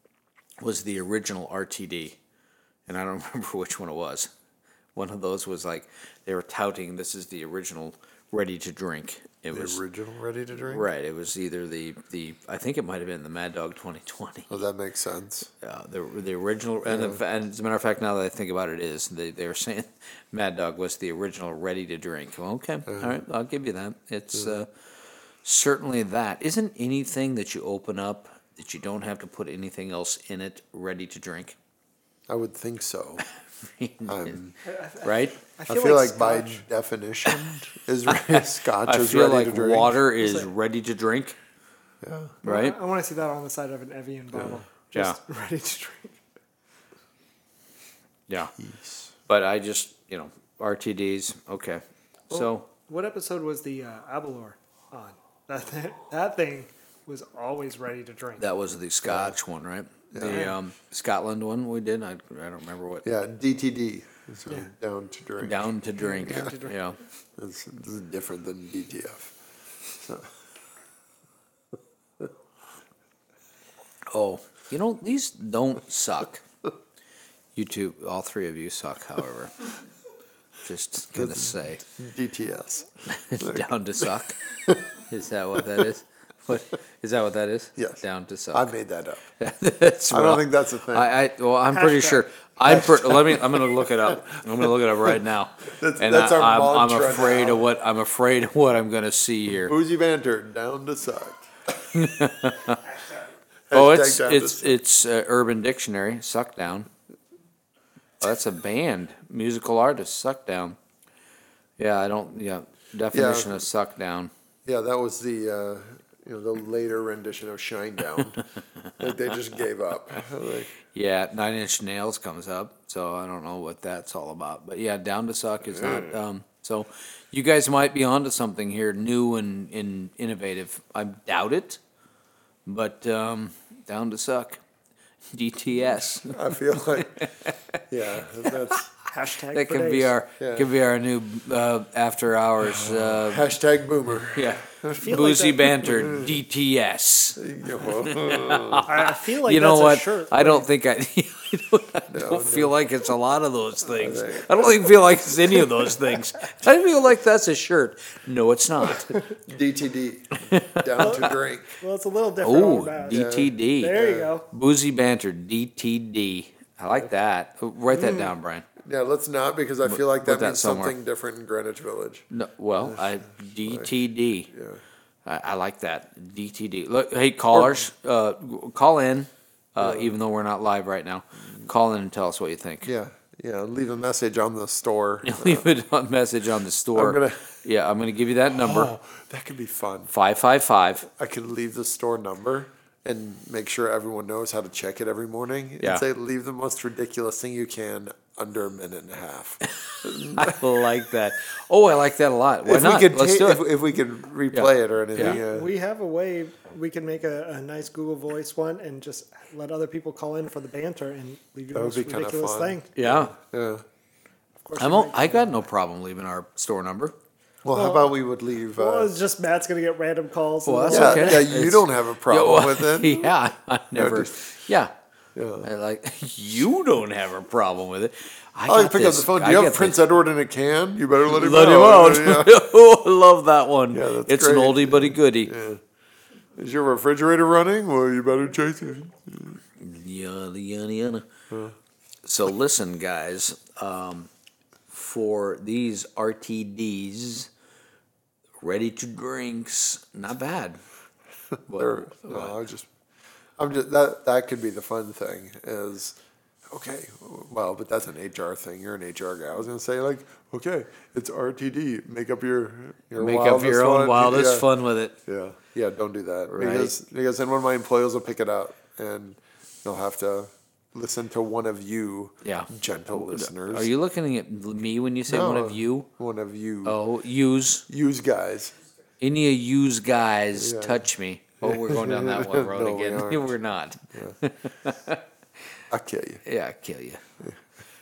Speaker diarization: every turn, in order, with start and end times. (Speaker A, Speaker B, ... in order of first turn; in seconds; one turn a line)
Speaker A: 0.6-2.2
Speaker A: 2.9-4.3
Speaker A: 4.9-9.8
Speaker B: 9.5-10.9
Speaker A: 10.7-14.6
Speaker B: 14.5-15.5
Speaker A: 15.6-24.7
Speaker B: 16.8-17.2
Speaker B: 22.9-23.2
Speaker B: 24.3-24.6
Speaker A: 25.4-31.6
Speaker B: 32.3-33.2
Speaker A: 33.6-34.4
Speaker B: 34.1-34.5
Speaker C: 34.6-36.6
Speaker A: 35.0-35.4
Speaker B: 35.7-40.0
Speaker A: 38.1-41.4
Speaker C: 40.2-40.5
Speaker B: 42.0-42.4
Speaker A: 42.4-42.8
Speaker C: 42.4-46.1
Speaker A: 48.3-48.5
Speaker B: 48.6-49.1
Speaker A: 49.3-52.7
Speaker C: 52.3-58.5
Speaker A: 58.4-63.0
Speaker B: 59.0-59.4
Speaker B: 60.1-60.5
Speaker C: 60.3-60.5
Speaker B: 63.0-65.7
Speaker A: 65.4-67.0
Speaker C: 66.0-66.7
Speaker B: 66.2-66.5
Speaker B: 67.4-69.4
Speaker B: 69.9-70.3
Speaker A: 74.1-76.4
Speaker A: 77.5-79.5
Speaker A: 80.6-81.8
Speaker B: 81.1-84.1
Speaker A: 83.1-84.4
Speaker A: 85.0-88.7
Speaker B: 85.6-85.9
Speaker B: 87.8-89.2
Speaker A: 89.4-99.7
Speaker B: 90.1-91.1
Speaker C: 91.7-92.2
Speaker B: 92.7-97.7
Speaker B: 99.6-101.5
Speaker A: 101.9-102.8
Speaker B: 103.7-104.8
Speaker A: 103.7-106.9
Speaker A: 108.2-110.8
Speaker A: 111.8-114.3
Speaker B: 113.1-113.6
Speaker B: 114.6-118.4
Speaker B: 119.0-120.7
Speaker A: 120.8-131.8
Speaker B: 125.7-126.2
Speaker A: 132.7-134.6
Speaker A: 135.3-137.8
Speaker B: 136.3-137.2
Speaker B: 137.9-138.9
Speaker A: 138.4-138.7
Speaker C: 139.1-140.1
Speaker A: 139.5-143.5
Speaker B: 140.4-140.7
Speaker B: 142.6-145.3
Speaker A: 144.3-159.2
Speaker C: 145.0-145.9
Speaker B: 145.8-146.4
Speaker B: 147.4-148.9
Speaker C: 148.8-150.7
Speaker B: 152.1-152.7
Speaker B: 153.9-155.9
Speaker B: 159.4-161.8
Speaker A: 160.4-161.3
Speaker C: 161.0-164.5
Speaker A: 162.4-164.0
Speaker B: 163.1-164.3
Speaker A: 164.5-168.7
Speaker C: 168.0-168.3
Speaker B: 168.8-173.9
Speaker A: 169.8-170.9
Speaker A: 172.3-174.5
Speaker B: 174.5-174.8
Speaker A: 175.2-182.9
Speaker B: 177.5-177.8
Speaker B: 179.8-180.1
Speaker B: 182.8-185.7
Speaker A: 185.2-188.9
Speaker B: 186.9-187.4
Speaker B: 188.5-190.1
Speaker A: 190.1-191.1
Speaker B: 191.0-200.6
Speaker A: 199.7-203.6
Speaker B: 202.6-205.7
Speaker A: 204.5-205.4
Speaker C: 205.2-212.9
Speaker B: 211.7-213.8
Speaker A: 212.9-213.3
Speaker C: 214.6-215.7
Speaker A: 214.8-217.1
Speaker B: 217.6-219.1
Speaker C: 217.7-218.1
Speaker C: 218.7-221.5
Speaker A: 220.7-224.9
Speaker B: 220.9-223.3
Speaker B: 223.9-224.3
Speaker B: 225.3-225.7
Speaker A: 225.6-230.2
Speaker B: 228.7-232.6
Speaker A: 231.2-235.5
Speaker B: 233.9-235.8
Speaker B: 236.6-239.6
Speaker A: 239.8-241.3
Speaker B: 241.5-241.7
Speaker A: 242.2-244.3
Speaker A: 244.9-247.5
Speaker A: 248.6-250.8
Speaker A: 251.7-252.6
Speaker B: 251.7-252.9
Speaker B: 253.6-264.7
Speaker A: 263.1-265.2
Speaker B: 265.2-273.9
Speaker A: 266.5-266.9
Speaker A: 272.4-276.1
Speaker B: 275.3-277.0
Speaker A: 276.8-277.8
Speaker B: 277.9-278.7
Speaker A: 279.2-285.2
Speaker B: 280.5-281.1
Speaker B: 281.6-283.6
Speaker B: 284.1-284.4
Speaker B: 285.9-286.4
Speaker A: 286.4-287.2